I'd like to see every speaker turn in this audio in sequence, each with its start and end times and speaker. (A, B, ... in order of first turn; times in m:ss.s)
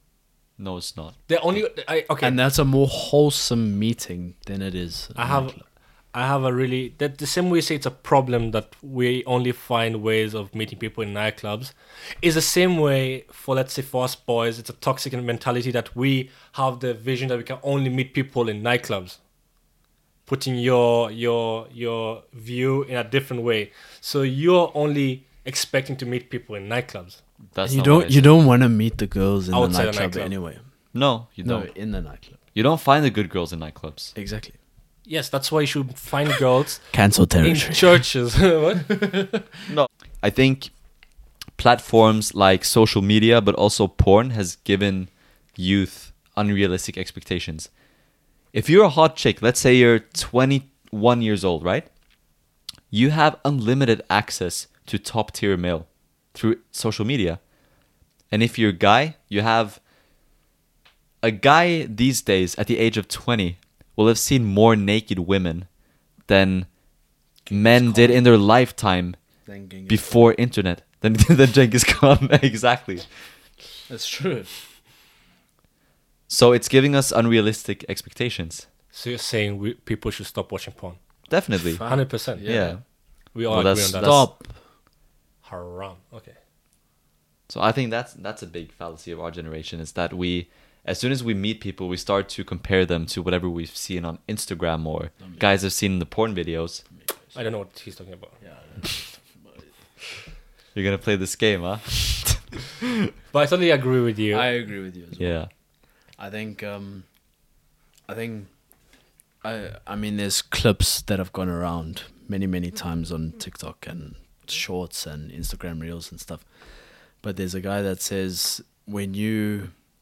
0:00.6-0:01.2 A
0:01.3-0:02.4 B
0:02.2-0:05.6 C
0:05.1-0:19.2 B
0:20.3-0:27.2 B
0:27.5-0:28.4 A
0:27.6-0:30.6 C
0:29.5-0:30.3 B
0:30.9-0:31.7 A
0:31.4-0:32.4 C
0:32.5-0:34.1 A
0:34.1-0:34.6 C
0:35.0-0:39.3 B
0:36.9-0:38.0 C
0:39.7-0:40.8 A
0:41.6-0:47.7 A
0:48.5-0:51.9 A
0:52.9-0:57.4 A
0:58.3-0:59.8 A
1:01.2-1:05.7 A
1:06.3-1:06.7 A
1:07.4-1:08.2 C
1:07.5-1:09.2 A
1:09.4-1:10.2 C
1:09.9-1:13.0 A
1:13.9-1:14.5 C
1:16.3-1:18.7 A
1:18.9-1:21.0 B
1:21.3-1:22.8 A
1:21.6-1:22.8 C
1:21.8-1:22.6 B
1:23.3-1:24.3 B
1:23.4-1:24.3 A
1:24.0-1:24.6 C
1:25.4-1:26.4 B
1:27.5-1:36.8 A
1:37.0-1:37.3 C
1:37.3-1:38.3 B
1:38.4-1:39.7 C
1:40.7-1:42.5 A
1:43.3-1:44.5 B
1:44.3-1:45.4 C
1:45.2-1:45.5 A
1:46.2-1:47.0 C
1:48.1-1:48.5 C
1:49.4-1:56.4 C
1:57.2-1:59.7 C